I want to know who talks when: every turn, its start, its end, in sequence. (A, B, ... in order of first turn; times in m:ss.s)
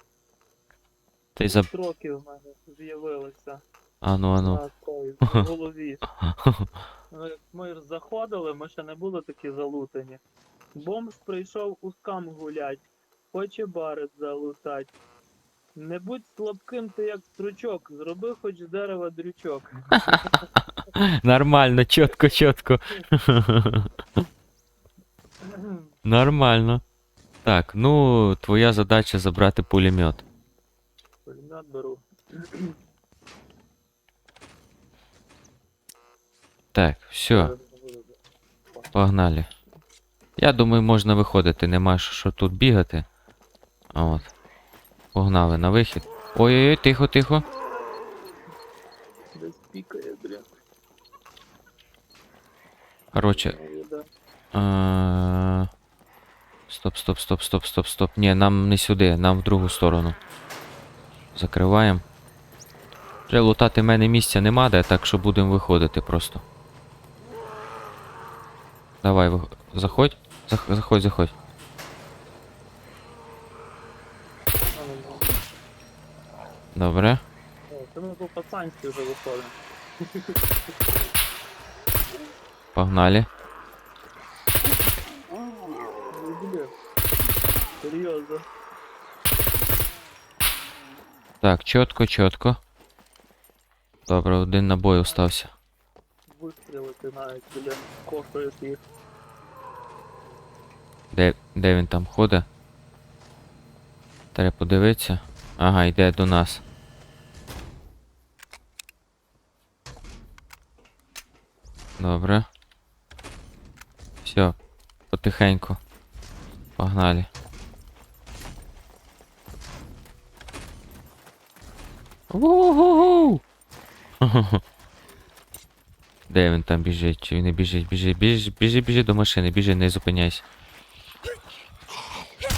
0:01.4-0:01.7 A
0:01.4-0:03.6 B
0:04.0-0:04.6 A
0:04.4-0:06.0 B
0:06.2-0:06.7 A
0:07.1-0:10.2 B
0:10.8-0:14.9 B
0:15.8-0:20.4 B
0:20.0-0:23.9 A
0:25.4-0:25.9 B
0:26.0-0:26.8 A
0:27.4-0:30.2 A
0:31.3-0:32.8 B
0:36.7-0:37.5 A
0:37.3-0:38.2 B
0:38.9-0:39.5 A
0:40.4-0:43.1 A
0:43.9-0:44.3 A
0:45.1-0:47.4 A
0:49.3-0:50.5 B
0:53.1-0:53.5 A
0:53.2-0:54.1 B
0:54.5-0:55.7 A
0:56.7-1:00.2 A
1:01.4-1:02.0 A
1:03.3-1:06.4 A
1:09.0-1:11.3 A
1:14.7-1:15.4 B
1:16.8-1:17.2 A
1:17.7-1:20.4 B
1:22.8-1:23.3 A
1:26.1-1:26.7 B
1:27.8-1:28.4 B
1:31.4-1:32.6 A
1:34.1-1:35.5 A
1:36.3-1:38.8 B
1:41.1-1:42.5 A
1:44.4-1:46.6 A
1:52.0-1:52.5 A
1:54.2-1:54.6 A
1:55.1-1:55.8 A
1:56.8-1:57.3 A
2:02.3-2:03.4 A
2:04.2-2:04.6 A
2:06.3-2:10.4 A